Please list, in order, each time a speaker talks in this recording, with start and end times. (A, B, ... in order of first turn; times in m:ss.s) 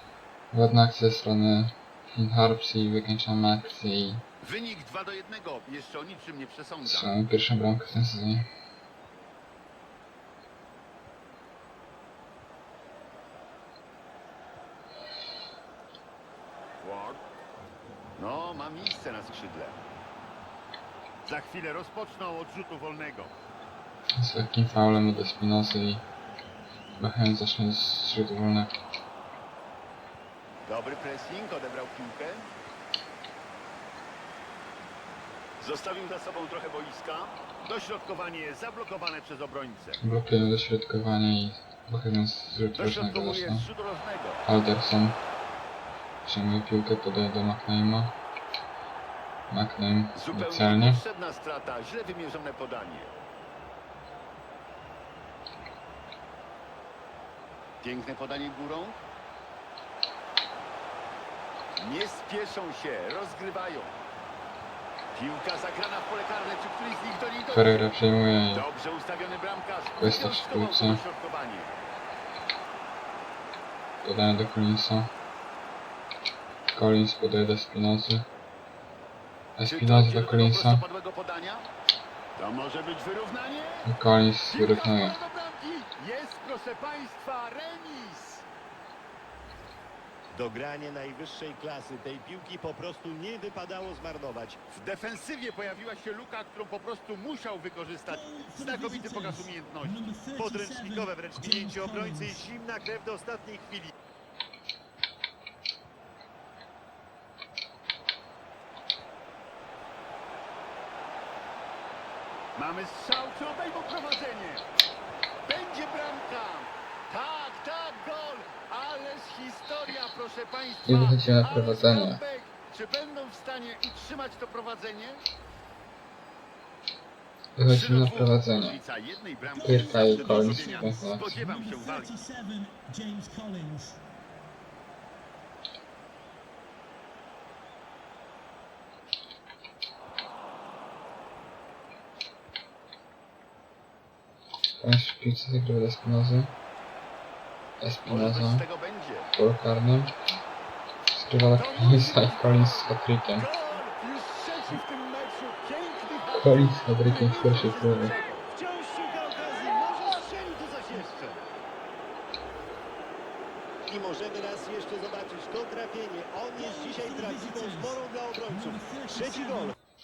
0:00.5-0:04.2 A
0:04.4-0:07.2 B
0:06.8-0:08.5 A
0:16.8-0:17.2 B
0:18.2-0:19.8 B
0:21.2-0:23.3 B
0:24.1-0:26.0 A
0:27.0-0:28.8 A
0:30.6-0:32.5 B
0:35.6-0:40.0 B
0:40.0-0:43.7 A
0:42.7-0:44.4 B
0:44.4-0:45.2 A
0:46.2-0:48.1 A
0:49.5-0:51.0 A
0:50.1-0:53.1 B
0:57.8-0:59.0 B
1:01.8-1:04.0 B
1:05.1-1:07.8 B
1:07.5-1:08.7 A
1:08.5-1:11.8 B
1:10.0-1:11.0 A
1:14.0-1:15.1 A
1:16.7-1:18.3 A
1:19.6-1:20.8 A
1:19.6-1:21.7 B
1:22.4-1:23.9 B
1:23.8-1:25.2 A
1:24.5-1:28.4 B
1:30.3-1:34.6 C
1:34.7-1:40.0 B
1:38.1-1:42.4 D
1:40.4-1:43.9 C
1:52.6-1:54.7 B
1:55.5-2:05.2 B
2:00.8-2:02.2 A
2:07.6-2:08.8 A
2:07.6-2:12.1 B
2:09.5-2:14.0 D
2:09.6-2:11.3 A
2:24.8-2:26.5 A
2:27.8-2:28.6 A
2:28.0-2:29.3 B
2:29.3-2:30.1 A
2:31.1-2:33.5 A
2:31.5-2:38.5 B
2:36.3-2:38.1 A
2:38.5-2:41.4 C
2:43.9-2:49.7 C
2:46.5-2:49.7 D